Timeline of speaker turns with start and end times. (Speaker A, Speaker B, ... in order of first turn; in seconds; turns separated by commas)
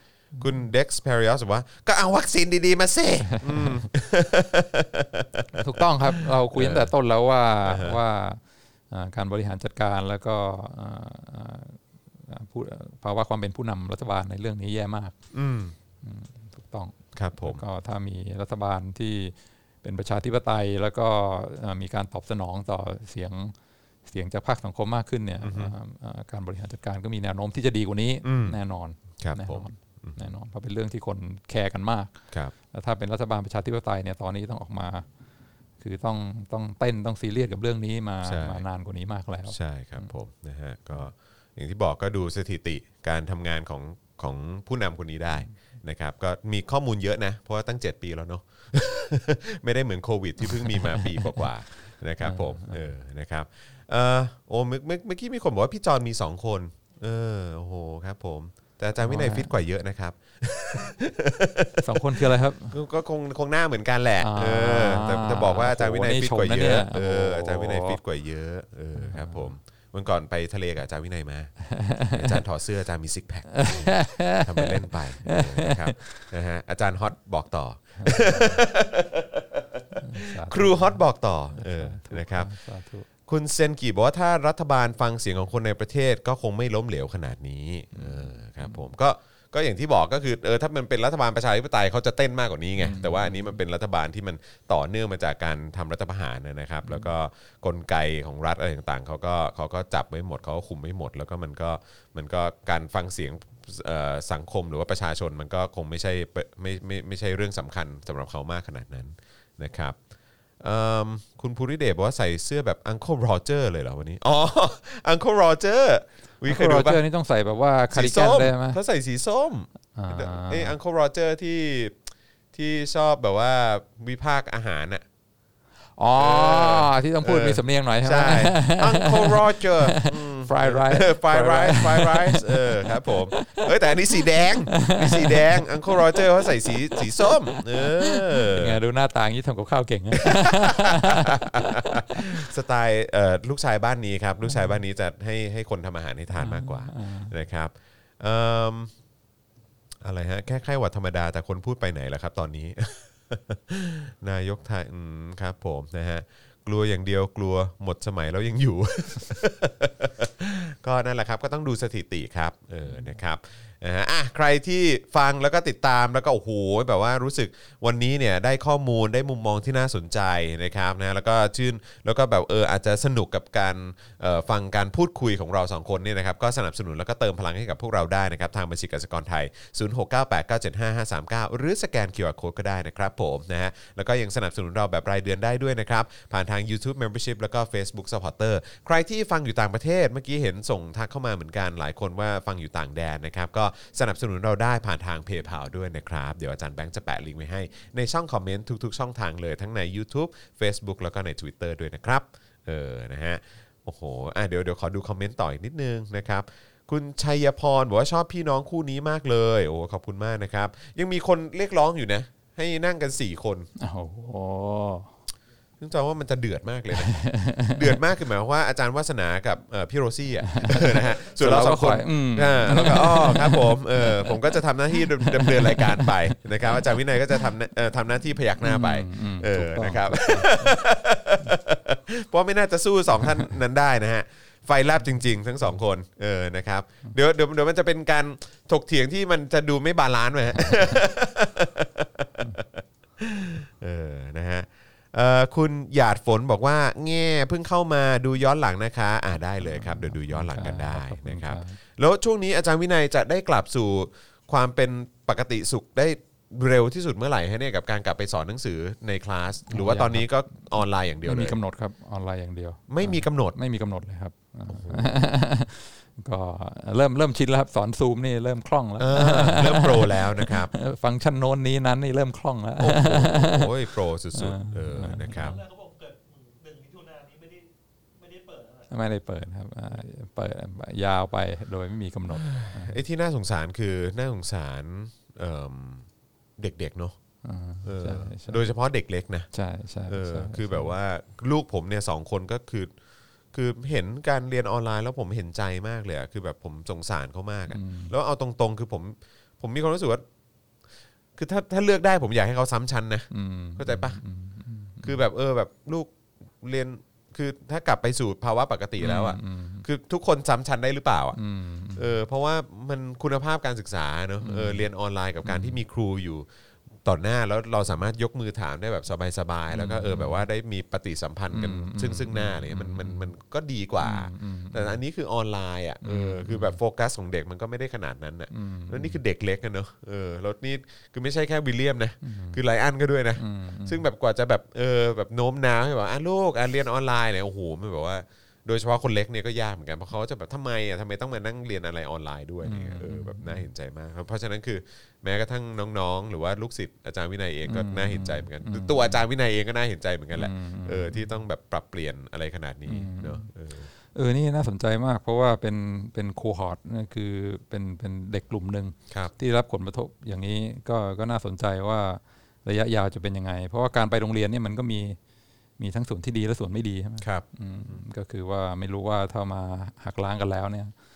Speaker A: 0.4-5.8, Speaker B: 3.4-3.8, Speaker B: 5.5-15.2, Speaker A: 6.5-6.9, Speaker A: 7.6-8.0, Speaker A: 15.3-15.7, Speaker B: 16.0-23.5, Speaker A: 17.1-17.6, Speaker B: 24.1-32.2, Speaker A: 25.4-25.7, Speaker A: 28.2-28.6, Speaker A: 29.2-30.2, Speaker B: 32.7-35.1, Speaker B: 35.8-40.1, Speaker A: 38.2-38.6, Speaker A: 39.5-82.5, Speaker B: 50.6-51.4, Speaker B: 52.2-52.8, Speaker B: 59.0-59.5, Speaker B: 61.8-62.8, Speaker B: 64.2-68.0, Speaker B: 68.9-69.5, Speaker B: 71.7-72.4, Speaker B: 73.5-76.2, Speaker B: 78.0-78.6, Speaker B: 80.0-81.0, Speaker B: 81.5-83.1, Speaker A: 83.2-110.0, Speaker B: 87.9-88.8, Speaker B: 92.8-93.6, Speaker A: 110.6-117.0, Speaker B: 116.4-118.8, Speaker A: 117.9-122.0, Speaker B: 119.9-120.7, Speaker A: 122.5-125.0, Speaker B: 126.0-142.4, Speaker A: 126.2-138.8, Speaker A: 140.2-148.9, Speaker B: 144.5-144.8, Speaker B: 146.4-147.3, Speaker A: 150.0-213.7, Speaker B: 213.8-215.2, Speaker A: 215.8-261.6, Speaker B: 216.9-218.0, Speaker B: 220.4-227.4, Speaker B: 228.6-230.8, Speaker B: 249.6-251.8, Speaker B: 259.7-260.3, Speaker B: 261.2-275.6, Speaker A: 262.9-263.6, Speaker A: 264.7-265.1, Speaker A: 269.0-270.7, Speaker A: 272.8-275.6, Speaker C: 275.3-278.9, Speaker B: 278.9-283.0, Speaker A: 282.3-286.1, Speaker A: 286.6-287.2, Speaker B: 287.4-288.6, Speaker A: 287.8-289.5, Speaker B: 289.5-290.9, Speaker A: 290.1-292.9, Speaker A: 293.5-300.2, Speaker B: 297.7-298.1, Speaker A: 301.4-304.2, Speaker B: 303.3-305.2, Speaker A: 305.0-311.4, Speaker B: 309.0-309.8, Speaker B: 311.3-312.1, Speaker A: 311.9-316.5, Speaker B: 314.4-314.8, Speaker B: 315.4-315.8, Speaker A: 317.0-353.9, Speaker B: 319.7-320.4, Speaker B: 321.5-323.3, Speaker B: 324.0-325.0, Speaker B: 326.0-326.8, Speaker B: 328.5-329.2, Speaker B: 332.2-332.6, Speaker B: 333.4-334.0, Speaker B: 342.6-343.7, Speaker B: 347.6-349.2, Speaker B: 350.3-351.3, Speaker B: 352.9-353.5, Speaker B: 354.1-365.2, Speaker B: 365.8-370.9, Speaker A: 367.2-368.0